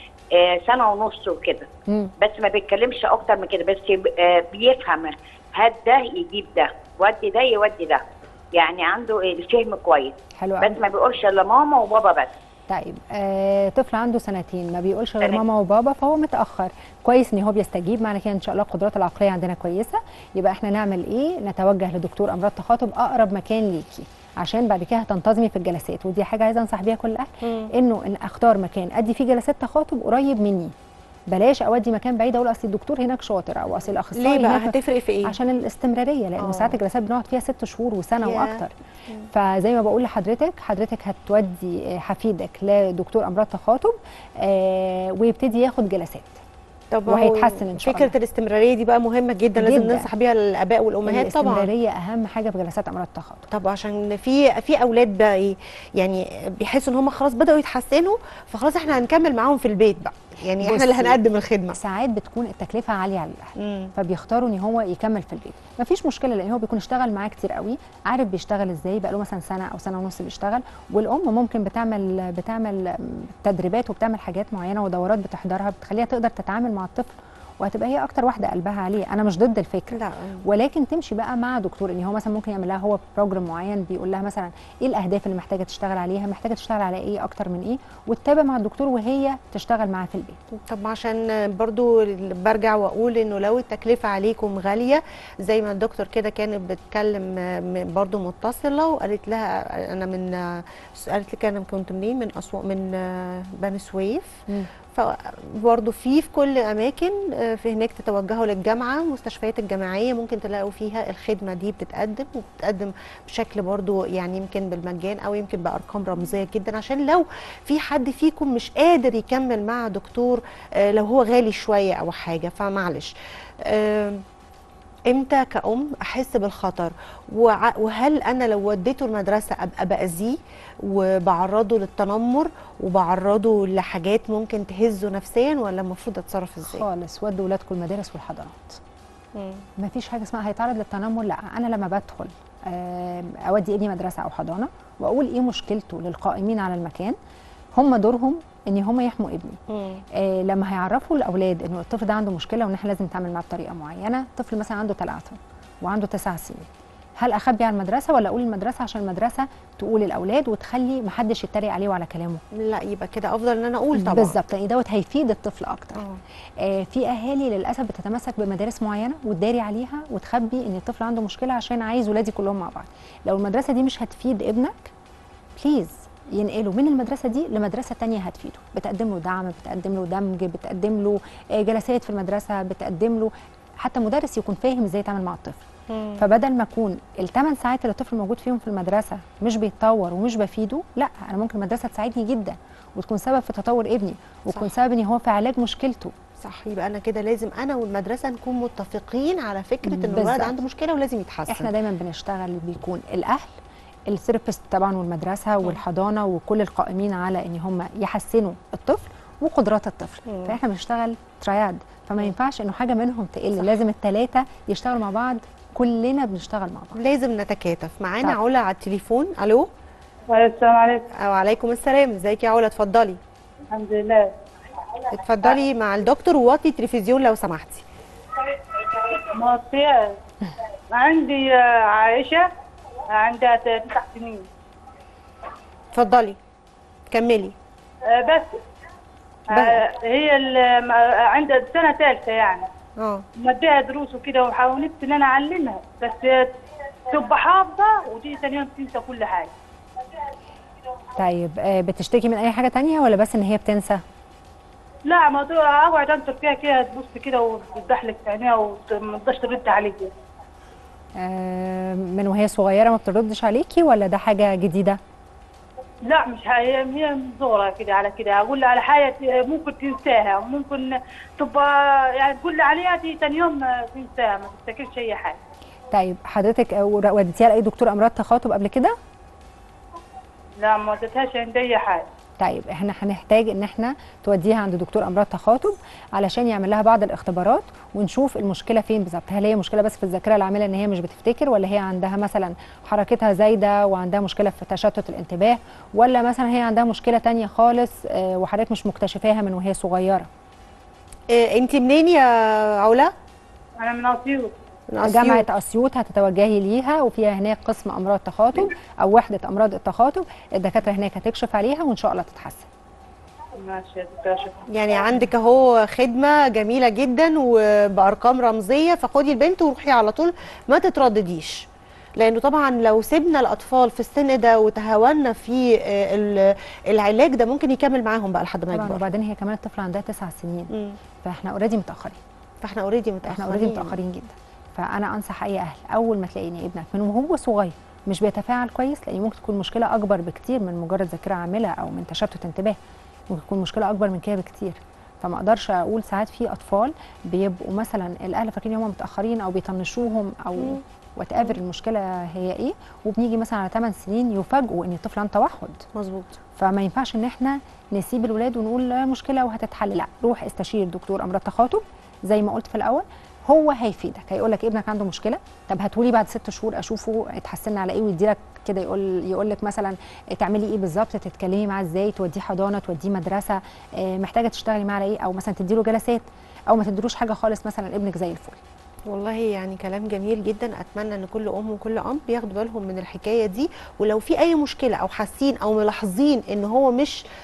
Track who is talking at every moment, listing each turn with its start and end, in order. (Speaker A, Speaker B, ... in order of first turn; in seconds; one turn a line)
Speaker A: 0.3-1.7
Speaker B: 1.9-2.1
Speaker A: 2.2-8.0
Speaker A: 8.5-12.3
Speaker B: 10.4-10.8
Speaker B: 12.7-30.7
Speaker C: 27.4-27.7
Speaker B: 31.3-38.7
Speaker C: 34.1-35.3
Speaker C: 36.4-36.8
Speaker C: 38.2-39.3
Speaker B: 39.3-46.4
Speaker C: 46.9-51.7
Speaker B: 47.1-48.1
Speaker B: 49.6-50.1
Speaker B: 51.0-53.4
Speaker C: 53.5-61.8
Speaker B: 60.6-61.2
Speaker B: 61.7-90.4
Speaker C: 63.6-63.9
Speaker C: 79.9-80.4
Speaker C: 90.5-123.1
Speaker C: 123.7-124.2
Speaker C: 125.1-136.8
Speaker B: 136.6-138.8
Speaker C: 139.3-139.6
Speaker B: 139.8-147.2
Speaker B: 147.8-149.6
Speaker C: 149.7-150.0
Speaker B: 150.1-156.7
Speaker B: 157.2-162.4
Speaker C: 162.5-164.3
Speaker B: 163.9-166.0
Speaker B: 166.6-174.9
Speaker B: 175.6-185.6
Speaker C: 185.9-186.2
Speaker B: 186.2-196.1
Speaker C: 196.4-201.7
Speaker B: 199.8-200.5
Speaker B: 201.5-203.6
Speaker B: 204.1-216.9
Speaker C: 210.2-210.6
Speaker C: 216.9-219.7
Speaker D: 220.3-221.1
Speaker C: 221.1-223.2
Speaker D: 223.7-224.3
Speaker C: 225.2-227.8
Speaker D: 228.9-230.1
Speaker D: 230.9-232.5
Speaker D: 233.1-234.5
Speaker C: 235.9-236.4
Speaker C: 237.1-237.5
Speaker D: 238.1-238.5
Speaker D: 239.5-242.7
Speaker C: 243.0-243.2
Speaker D: 243.4-246.5
Speaker D: 247.1-249.5
Speaker B: 251.2-254.0
Speaker D: 255.1-260.1
Speaker B: 261.2-265.0
Speaker D: 266.1-275.4
Speaker B: 275.9-278.9
Speaker D: 280.6-282.0
Speaker B: 282.4-300.3
Speaker C: 301.3-303.1
Speaker D: 303.8-304.5
Speaker C: 304.9-305.4
Speaker B: 305.0-312.6
Speaker D: 313.6-314.6
Speaker C: 314.7-329.0
Speaker B: 328.7-330.7
Speaker C: 330.7-331.0
Speaker B: 331.2-332.2
Speaker C: 332.6-334.0
Speaker B: 333.2-342.8
Speaker B: 343.3-355.8
Speaker C: 355.9-356.4
Speaker B: 356.6-378.6
Speaker C: 379.1-387.2